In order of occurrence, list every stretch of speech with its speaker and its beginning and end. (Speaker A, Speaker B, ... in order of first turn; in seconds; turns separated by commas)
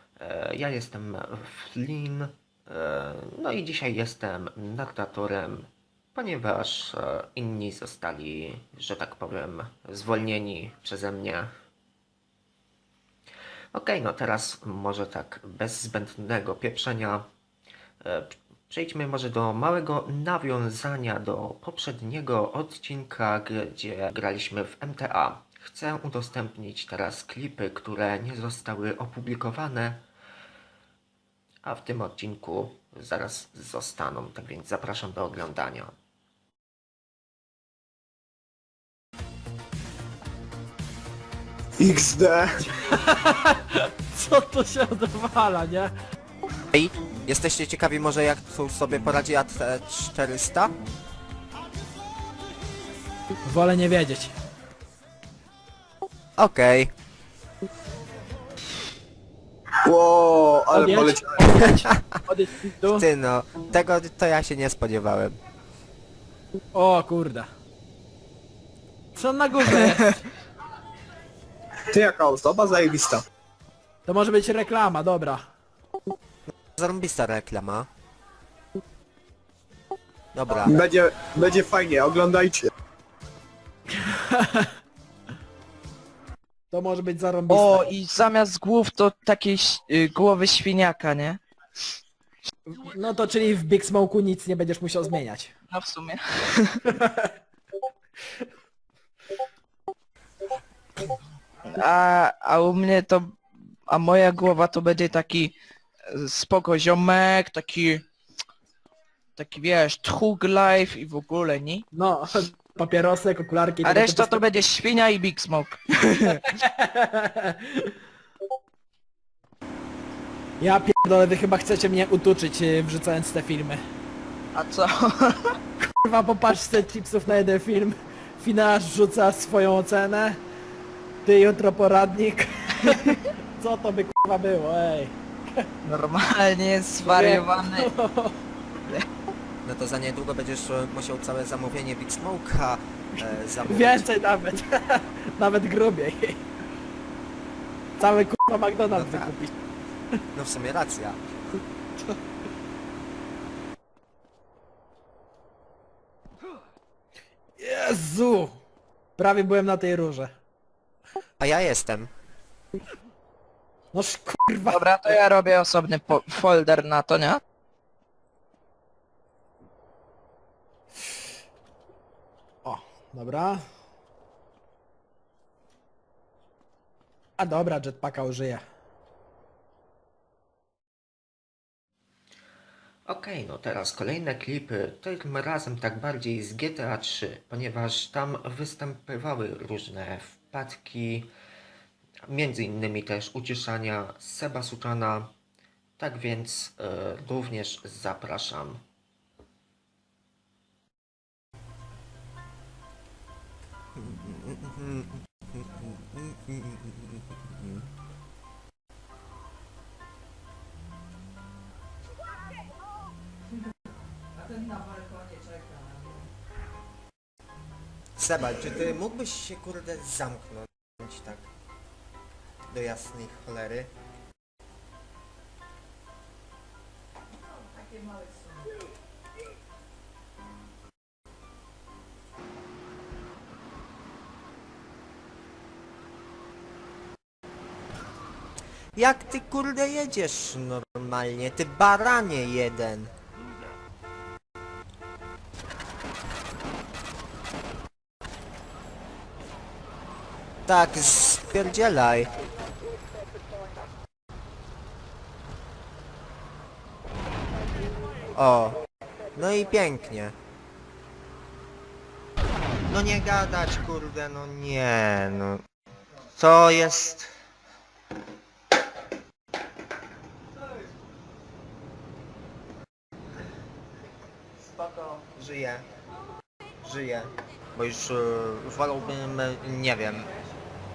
Speaker A: 0.2-11.5, Speaker A: 13.7-17.2, Speaker A: 18.0-30.0, Speaker A: 31.6-35.9, Speaker B: 41.8-42.7, Speaker C: 42.8-45.9, Speaker D: 46.7-50.7, Speaker C: 53.5-54.3, Speaker D: 56.4-56.9, Speaker B: 59.8-61.4, Speaker C: 60.7-63.0, Speaker D: 62.9-65.4, Speaker C: 66.7-67.5, Speaker C: 69.1-70.3, Speaker B: 71.9-73.2, Speaker C: 74.1-75.5, Speaker D: 76.8-77.9, Speaker D: 80.3-80.8, Speaker B: 80.6-82.7, Speaker C: 83.9-84.7, Speaker C: 86.7-87.9, Speaker E: 87.5-91.4, Speaker C: 92.7-95.5, Speaker E: 95.7-96.8, Speaker C: 96.9-97.3, Speaker E: 101.7-105.5, Speaker E: 106.1-108.0, Speaker E: 109.4-111.8, Speaker C: 111.9-114.4, Speaker E: 113.8-116.5, Speaker C: 116.3-118.0, Speaker C: 120.6-123.8, Speaker E: 124.5-125.5, Speaker C: 125.8-130.4, Speaker C: 131.2-135.7, Speaker E: 132.8-133.1, Speaker E: 135.8-137.9, Speaker C: 137.0-138.4, Speaker D: 139.6-144.0, Speaker C: 143.6-146.5, Speaker C: 148.0-149.5, Speaker D: 148.9-149.3, Speaker D: 150.3-151.2, Speaker C: 157.6-158.6, Speaker C: 159.2-160.3, Speaker D: 161.4-162.1, Speaker C: 163.9-165.2, Speaker E: 164.7-167.4, Speaker C: 172.6-173.6, Speaker C: 177.4-178.6, Speaker A: 183.1-191.3, Speaker A: 192.3-195.3, Speaker A: 196.0-198.8, Speaker D: 204.0-207.8, Speaker D: 218.2-221.4, Speaker D: 222.7-223.9, Speaker D: 238.9-243.1, Speaker D: 250.7-252.3, Speaker D: 258.3-258.8, Speaker D: 259.4-260.3, Speaker D: 262.9-265.6, Speaker D: 266.4-267.3, Speaker D: 274.7-275.8, Speaker D: 276.8-280.3